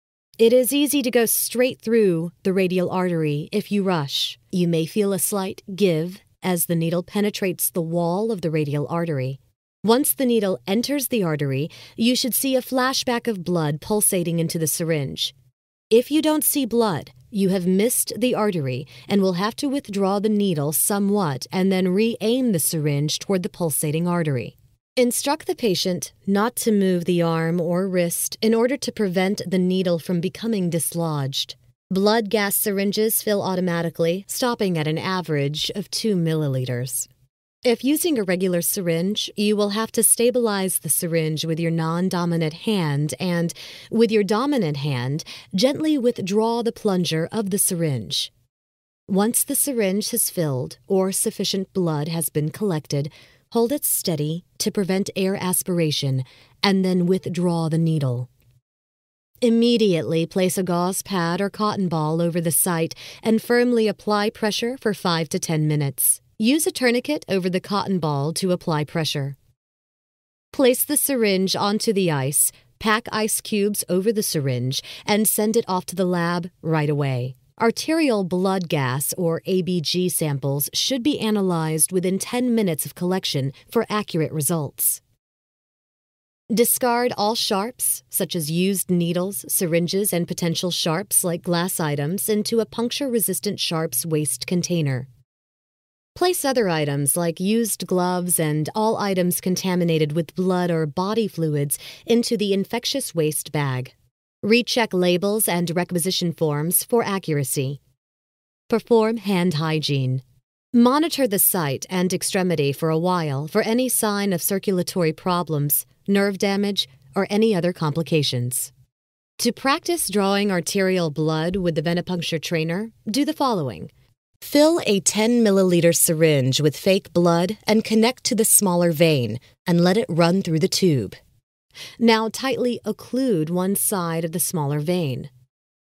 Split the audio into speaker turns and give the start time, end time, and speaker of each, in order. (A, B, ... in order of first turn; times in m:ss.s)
0:00.4-0:15.3 A
0:15.9-0:37.1 A
0:37.6-0:48.3 A
0:49.1-0:58.3 A
0:59.4-1:09.4 A
1:10.5-1:25.0 A
1:26.5-1:35.1 A
1:36.1-1:47.8 A
1:48.7-1:50.2 A
1:50.7-1:58.7 A
1:59.4-2:11.2 A
2:12.0-2:15.3 A